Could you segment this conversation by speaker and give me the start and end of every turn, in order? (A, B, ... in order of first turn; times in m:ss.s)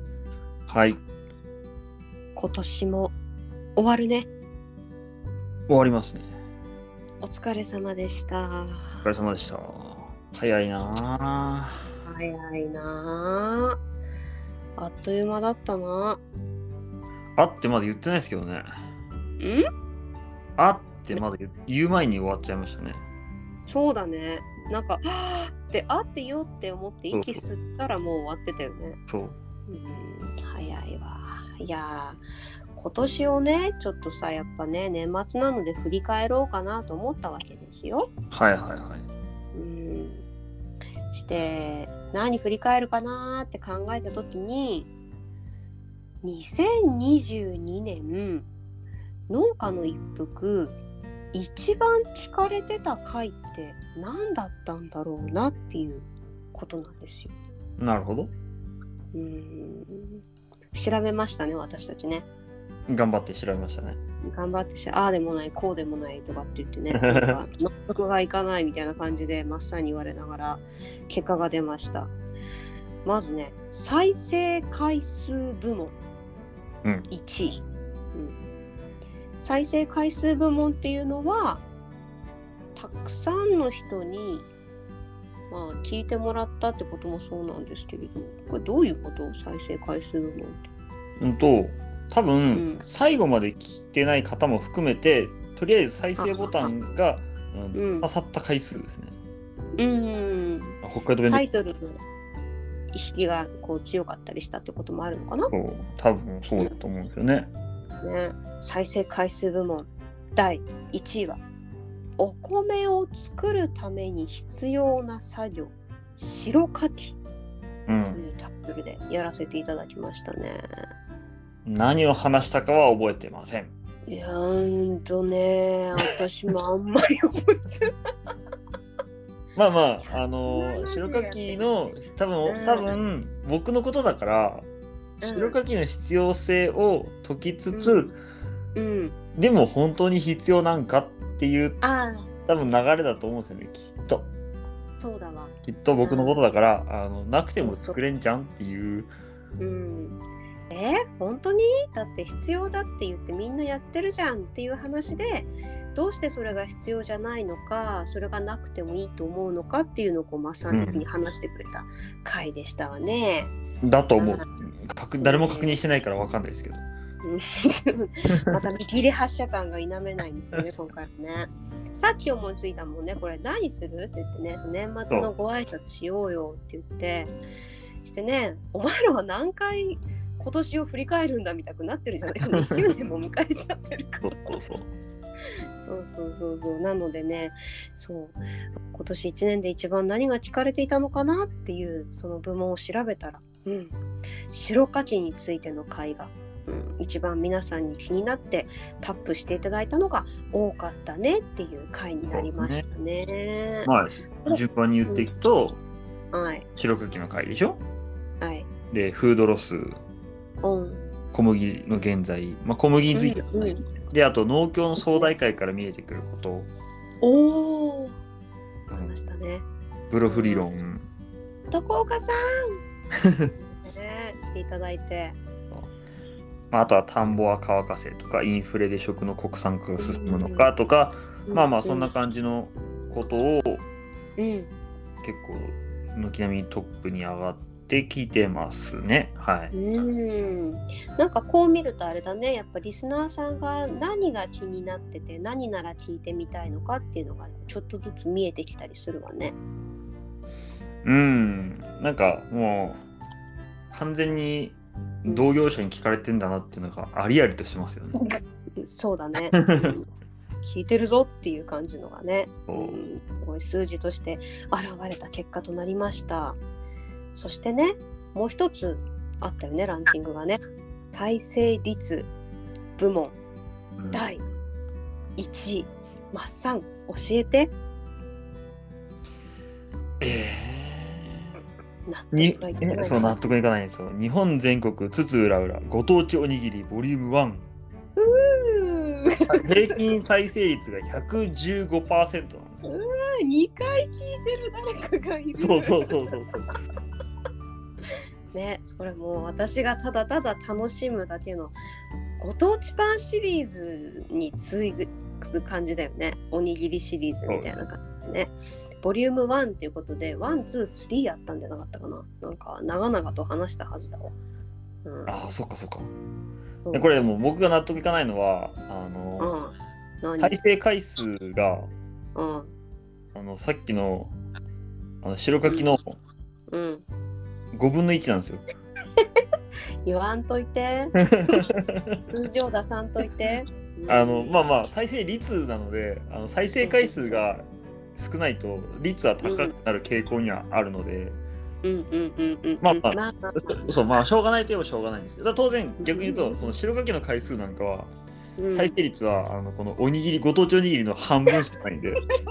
0:00.7-0:01.0 A
0:02.4-0:03.1 B
0:03.8-0:04.3 B
0:05.7-0:06.3 A
0:07.2-0:09.0 B
0:09.0-0:11.8 A
0:12.0-0:13.8 B
0:14.8-0:16.2 B
0:17.4-0:18.7 A
0:19.4-0:19.6 B
0:20.6-0:23.0 A
0:23.7-0:29.0 B
0:27.1-0:27.4 A
0:29.1-0:29.4 A
0:29.7-0:32.2 B
0:32.7-0:38.1 B
0:38.3-0:39.0 A
0:39.5-0:40.2 B
0:41.1-0:44.9 B
0:46.2-0:48.5 B
0:49.3-0:50.8 B
0:51.3-0:57.3 B
0:57.8-0:58.3 A
0:59.1-1:02.2 B
1:02.9-1:04.0 A
1:04.3-1:12.1 B
1:06.9-1:07.4 A
1:13.0-1:15.9 B
1:17.1-1:17.6 B
1:19.4-1:21.6 B
1:22.8-1:24.5 B
1:25.5-1:30.6 B
1:31.2-1:39.1 A
1:32.5-1:32.8 B
1:36.2-1:36.7 B
1:37.7-1:38.1 B
1:39.8-1:42.0 B
1:40.8-1:41.4 A
1:42.9-1:45.5 B
1:45.5-1:47.5 A
1:48.0-1:51.4 B
1:52.2-1:57.2 B
1:57.9-1:58.2 A
1:58.1-2:00.6 B
2:01.6-2:03.7 A
2:04.0-2:07.9 B
2:09.5-2:14.7 A
2:10.0-2:11.6 B
2:12.4-2:13.0 B
2:15.2-2:15.6 B
2:15.2-2:18.2 A
2:17.7-2:18.1 B
2:18.7-2:19.2 B
2:19.4-2:21.8 A
2:21.8-2:22.3 B
2:22.5-2:24.3 A
2:25.0-2:26.4 B
2:25.6-2:29.1 A
2:27.6-2:28.0 B
2:29.6-2:30.2 B
2:30.7-2:43.5 B
2:40.7-2:41.0 A
2:43.8-2:46.8 A
2:44.2-2:44.4 B
2:45.2-2:45.8 B
2:47.2-2:57.3 B
2:58.0-3:04.6 B
3:02.5-3:02.9 A
3:04.2-3:04.9 A
3:05.8-3:14.0 B
3:14.5-3:23.9 B
3:22.3-3:22.8 A
3:23.8-3:25.8 A
3:24.4-3:25.3 B
3:26.3-3:26.6 B
3:26.8-3:27.8 A
3:28.4-3:28.7 B
3:28.9-3:30.0 A
3:30.6-3:31.1 B
3:31.3-3:36.7 A
3:33.1-3:33.8 B
3:35.0-3:35.3 B
3:37.2-3:38.1 B
3:38.9-3:39.1 A
3:39.0-3:39.6 B
3:40.1-3:41.0 A
3:40.3-3:40.7 B
3:41.7-3:42.8 B
3:43.2-3:43.5 A
3:43.6-3:45.4 B
3:46.7-3:53.8 A
3:50.0-3:50.7 B
3:51.5-3:52.1 B
3:54.4-3:54.7 B
3:55.2-3:59.7 A
3:59.7-4:09.6 B
4:11.0-4:13.0 A
4:13.9-4:18.2 A
4:15.2-4:15.5 B
4:18.2-4:20.1 B
4:19.5-4:20.0 A
4:20.6-4:26.6 B
4:22.7-4:23.0 A
4:27.3-4:30.6 B
4:31.1-4:32.3 B
4:33.0-4:33.4 B
4:34.0-4:34.3 A
4:34.1-4:34.4 B
4:35.4-4:37.7 B
4:40.2-4:41.5 A
4:42.0-4:43.5 B
4:42.3-4:47.7 A
4:48.2-4:50.0 B
4:49.5-4:52.9 A
4:52.8-4:56.3 B
4:55.6-4:56.7 A
4:58.5-5:01.7 B
5:02.4-5:14.3 B
5:07.5-5:07.8 A
5:15.0-5:15.5 B
5:15.3-5:16.1 A
5:16.9-5:19.6 A
5:19.4-5:20.6 B
5:20.4-5:21.9 A
5:22.3-5:22.7 B
5:23.3-5:24.4 A
5:25.2-5:26.2 A
5:25.6-5:26.0 B
5:26.7-5:27.0 B
5:27.7-5:28.6 A
5:30.0-5:31.7 B
5:31.1-5:32.2 A
5:32.3-5:34.6 B
5:34.1-5:41.4 A
5:36.8-5:37.2 B
5:39.4-5:39.7 B
5:41.8-5:44.0 B
5:42.8-5:48.1 A
5:46.0-5:46.7 B
5:48.6-5:48.9 B
5:48.7-5:52.2 A